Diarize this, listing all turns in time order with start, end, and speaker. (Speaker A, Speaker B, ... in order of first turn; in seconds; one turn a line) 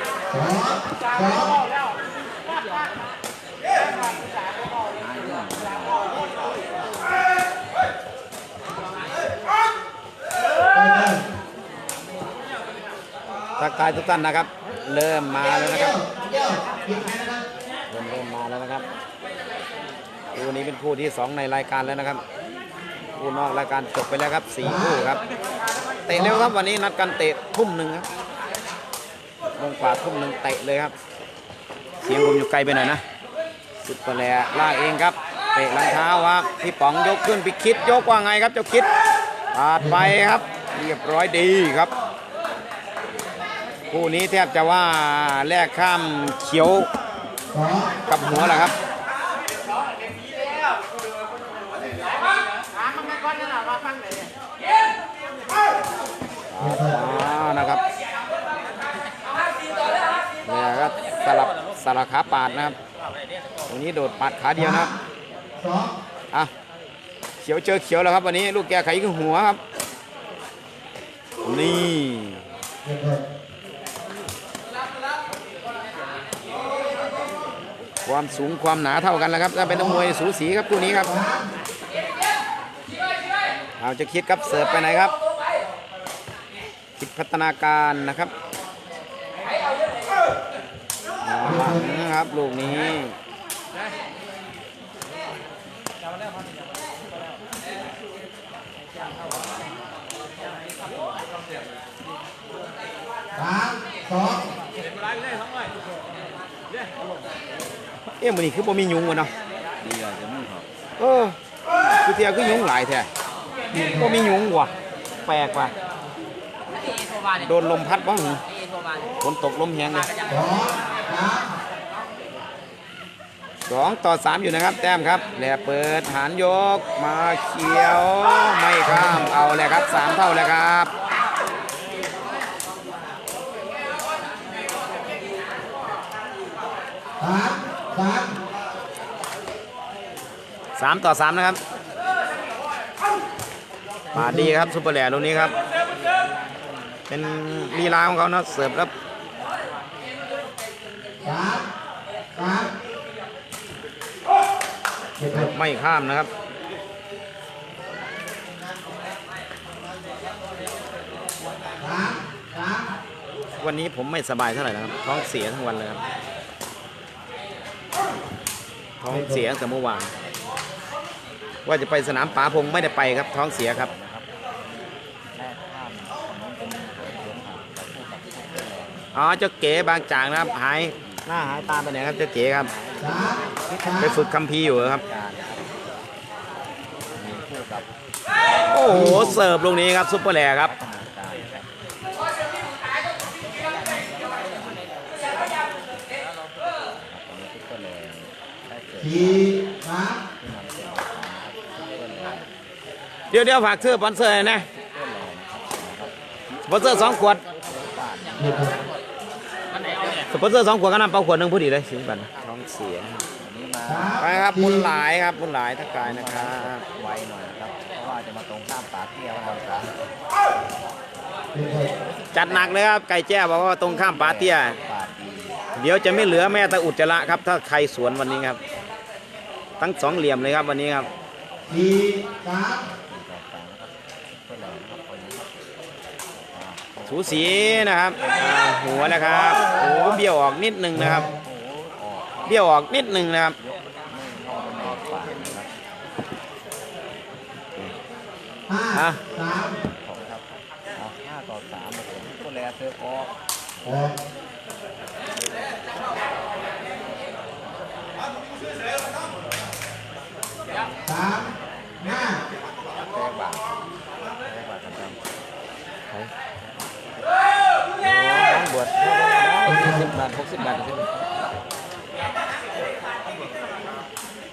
Speaker A: 0.3-1.5
Speaker B: 4.9-6.2
Speaker A: 10.7-11.2
Speaker C: 13.6-16.0
Speaker A: 16.0-17.4
Speaker C: 17.9-18.9
Speaker C: 20.3-22.2
Speaker C: 23.1-25.2
Speaker C: 26.1-28.1
Speaker C: 29.6-30.9
Speaker C: 32.0-33.0
Speaker C: 33.8-38.9
Speaker C: 39.5-41.9
Speaker C: 43.9-46.9
Speaker A: 47.5-48.0
Speaker C: 48.1-48.7
Speaker C: 56.5-57.8
Speaker A: 56.6-56.9
Speaker C: 60.5-62.8
Speaker C: 63.7-64.9
Speaker A: 65.6-65.9
Speaker C: 67.4-69.6
Speaker C: 71.4-72.4
Speaker A: 72.8-73.2
Speaker C: 78.0-81.2
Speaker C: 83.8-85.1
Speaker C: 87.0-88.3
Speaker C: 91.2-93.1
Speaker A: 103.4-104.4
Speaker C: 108.2-109.3
Speaker B: 109.8-110.7
Speaker C: 111.0-111.3
Speaker C: 112.0-113.1
Speaker A: 113.7-114.0
Speaker C: 113.9-114.7
Speaker C: 115.2-115.7
Speaker C: 117.4-118.4
Speaker C: 119.2-120.1
Speaker A: 120.3-121.4
Speaker C: 123.7-130.9
Speaker A: 137.2-138.3
Speaker C: 140.8-141.6
Speaker C: 144.1-145.5
Speaker C: 147.1-148.9
Speaker A: 151.2-151.6
Speaker A: 152.4-152.7
Speaker C: 155.3-156.3
Speaker A: 161.8-162.8
Speaker C: 163.6-166.0
Speaker C: 169.0-170.1
Speaker C: 171.7-173.9
Speaker B: 173.6-174.3
Speaker B: 175.3-179.1
Speaker C: 179.1-182.7
Speaker B: 181.0-185.7
Speaker C: 184.0-185.0
Speaker B: 187.1-187.9
Speaker C: 188.7-190.7
Speaker B: 188.9-189.5
Speaker B: 190.6-191.7
Speaker B: 193.4-195.2
Speaker B: 197.0-199.6
Speaker A: 199.2-200.1
Speaker B: 200.4-202.5
Speaker C: 203.3-204.7
Speaker B: 203.8-208.8
Speaker C: 206.7-207.4
Speaker C: 210.3-213.2
Speaker B: 213.4-214.2
Speaker A: 214.0-214.6
Speaker C: 214.2-216.8
Speaker B: 216.0-219.9
Speaker B: 221.5-222.8
Speaker C: 222.3-224.8
Speaker B: 223.8-225.6
Speaker C: 225.8-228.6
Speaker C: 229.8-231.1
Speaker A: 231.7-232.8
Speaker B: 232.8-235.6
Speaker B: 236.4-240.2
Speaker C: 237.1-241.3
Speaker B: 241.2-242.6
Speaker C: 242.4-243.6
Speaker B: 243.6-245.7
Speaker A: 248.7-249.7
Speaker C: 248.9-249.2
Speaker B: 249.9-253.3
Speaker B: 253.8-254.1
Speaker B: 261.1-261.6
Speaker B: 262.9-263.8
Speaker B: 264.3-265.2
Speaker C: 268.0-271.1